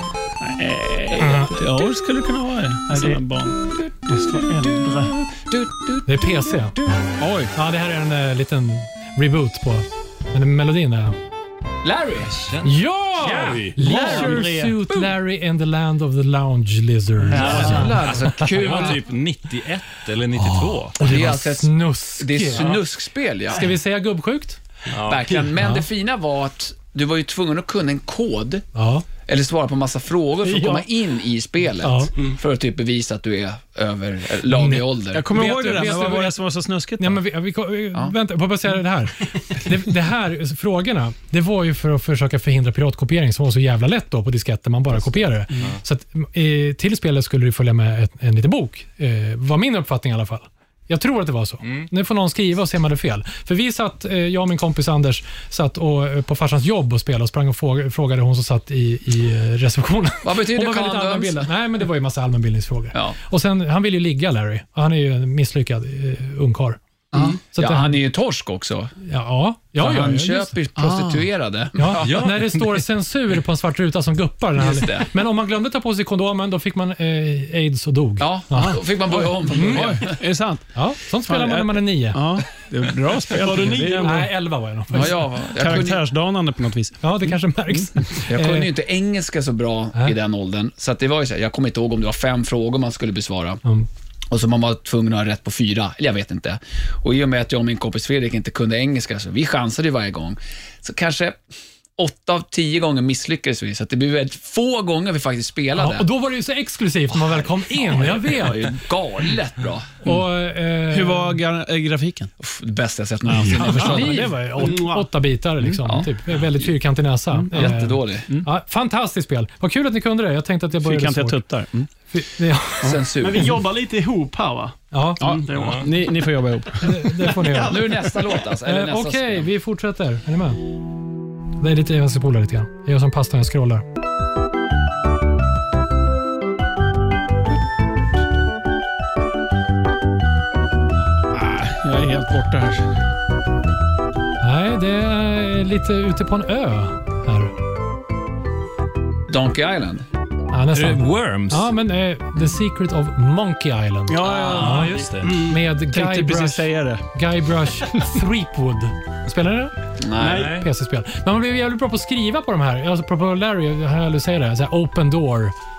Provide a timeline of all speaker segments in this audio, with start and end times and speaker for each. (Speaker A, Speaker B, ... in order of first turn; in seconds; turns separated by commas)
Speaker A: 0.4-3.6, Speaker B: 1.2-1.6, Speaker C: 3.6-7.1, Speaker D: 4.1-5.2, Speaker B: 6.1-6.8, Speaker A: 7.2-7.5, Speaker B: 7.5-11.2, Speaker C: 11.8-12.3, Speaker E: 12.3-13.8, Speaker B: 12.6-18.9, Speaker A: 13.8-14.6, Speaker D: 13.8-14.8, Speaker E: 17.3-21.1, Speaker D: 17.3-17.6, Speaker C: 17.4-19.0, Speaker B: 20.4-22.7, Speaker C: 21.0-23.7, Speaker B: 23.5-24.6, Speaker E: 24.9-25.4, Speaker C: 25.1-28.6, Speaker B: 28.8-29.1, Speaker C: 29.2-35.3, Speaker A: 30.5-30.8, Speaker B: 31.8-32.1, Speaker B: 34.5-36.4, Speaker A: 35.1-37.2, Speaker B: 37.0-66.8, Speaker A: 45.1-45.8, Speaker E: 51.6-51.9, Speaker C: 60.2-61.5, Speaker C: 67.1-68.9, Speaker B: 67.5-68.0, Speaker B: 69.0-70.5, Speaker C: 69.8-72.3, Speaker A: 70.8-71.3, Speaker B: 71.8-80.2, Speaker E: 72.0-72.8, Speaker C: 74.6-75.1, Speaker C: 78.2-80.2, Speaker A: 79.6-84.3, Speaker B: 80.7-82.2, Speaker D: 83.4-84.2, Speaker B: 83.8-85.2, Speaker C: 84.9-86.0, Speaker A: 85.0-87.8, Speaker B: 87.0-88.7, Speaker C: 88.3-93.6, Speaker C: 94.3-101.4, Speaker C: 102.0-106.1, Speaker B: 105.8-108.7, Speaker C: 107.1-110.0, Speaker B: 110.0-111.4, Speaker A: 110.9-112.3, Speaker C: 112.4-114.3, Speaker A: 113.4-114.3, Speaker B: 113.6-121.4, Speaker D: 114.6-115.1, Speaker C: 115.7-116.1, Speaker C: 117.5-118.3, Speaker A: 120.8-121.9, Speaker B: 122.0-123.0, Speaker C: 122.8-123.5, Speaker D: 123.2-126.2, Speaker B: 124.9-125.2, Speaker A: 125.2-127.1, Speaker E: 125.5-125.9, Speaker B: 126.8-128.1, Speaker D: 127.3-128.5, Speaker C: 127.7-129.5, Speaker B: 128.6-130.6, Speaker B: 131.6-133.8, Speaker A: 141.3-142.9, Speaker B: 144.4-147.5, Speaker C: 149.3-150.1, Speaker B: 150.5-159.7, Speaker E: 150.7-151.7, Speaker A: 154.1-155.1, Speaker E: 154.3-155.4, Speaker D: 155.2-155.6, Speaker A: 155.8-157.1, Speaker C: 160.0-160.5, Speaker D: 160.2-160.5, Speaker E: 160.2-160.7, Speaker B: 160.4-165.5